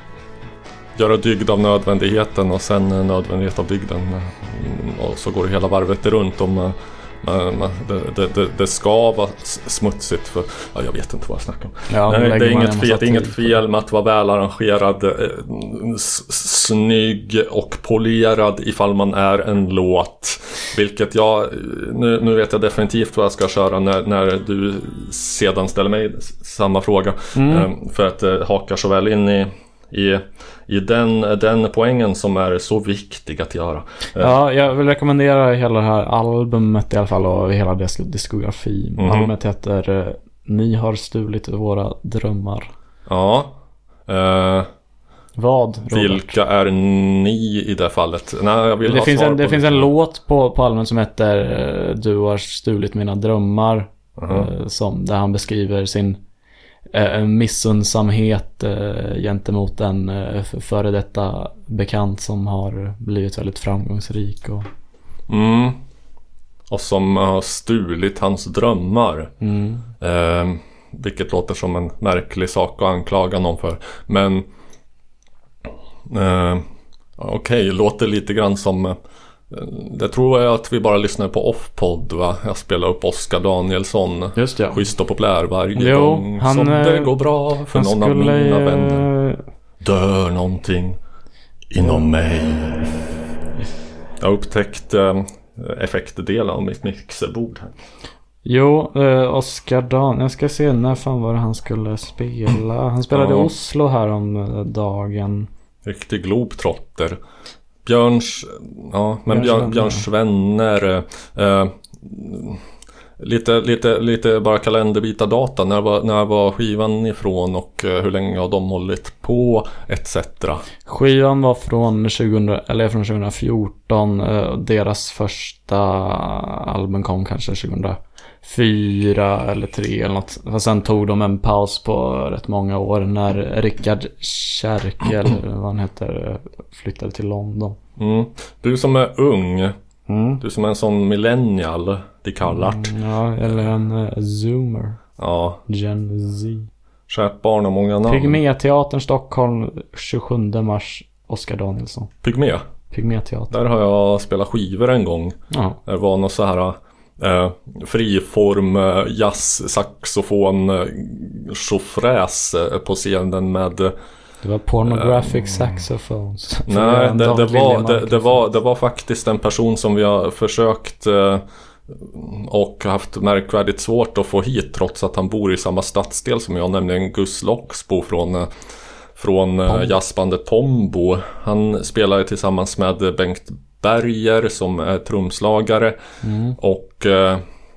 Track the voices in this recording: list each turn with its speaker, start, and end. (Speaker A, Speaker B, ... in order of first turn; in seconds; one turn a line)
Speaker A: 0.9-34.3
Speaker B: 11.9-13.5
Speaker B: 27.3-27.7
Speaker B: 34.2-42.7
Speaker A: 39.0-39.3
Speaker A: 43.1-44.7
Speaker B: 45.4-46.4
Speaker A: 45.9-49.9
Speaker B: 48.8-56.2
Speaker A: 54.2-54.5
Speaker B: 56.9-64.7
Speaker A: 65.3-65.8
Speaker A: 66.7-69.3
Speaker B: 69.4-69.9
Speaker A: 70.0-74.5
Speaker A: 76.0-79.0
Speaker A: 79.5-89.1
Speaker B: 84.3-84.8
Speaker B: 85.7-87.2
Speaker B: 87.7-89.4
Speaker A: 89.8-91.0
Speaker A: 91.7-93.1
Speaker A: 94.2-97.7
Speaker B: 98.4-105.5
Speaker A: 103.1-103.5
Speaker A: 105.8-107.2
Speaker A: 107.8-112.6
Speaker B: 109.3-110.0
Speaker A: 113.2-120.6
Speaker B: 120.9-137.8
Speaker A: 138.0-139.8
Speaker B: 140.1-140.4
Speaker A: 140.4-142.9
Speaker B: 142.5-145.0
Speaker A: 145.2-145.6
Speaker B: 145.7-146.7
Speaker A: 147.1-148.4
Speaker B: 148.1-152.1
Speaker A: 152.2-152.7
Speaker B: 152.9-153.5
Speaker A: 153.5-163.9
Speaker B: 155.5-155.8
Speaker B: 164.4-168.4
Speaker A: 164.8-165.8
Speaker A: 166.7-178.5
Speaker A: 179.1-186.0
Speaker B: 186.2-186.6
Speaker A: 186.6-187.4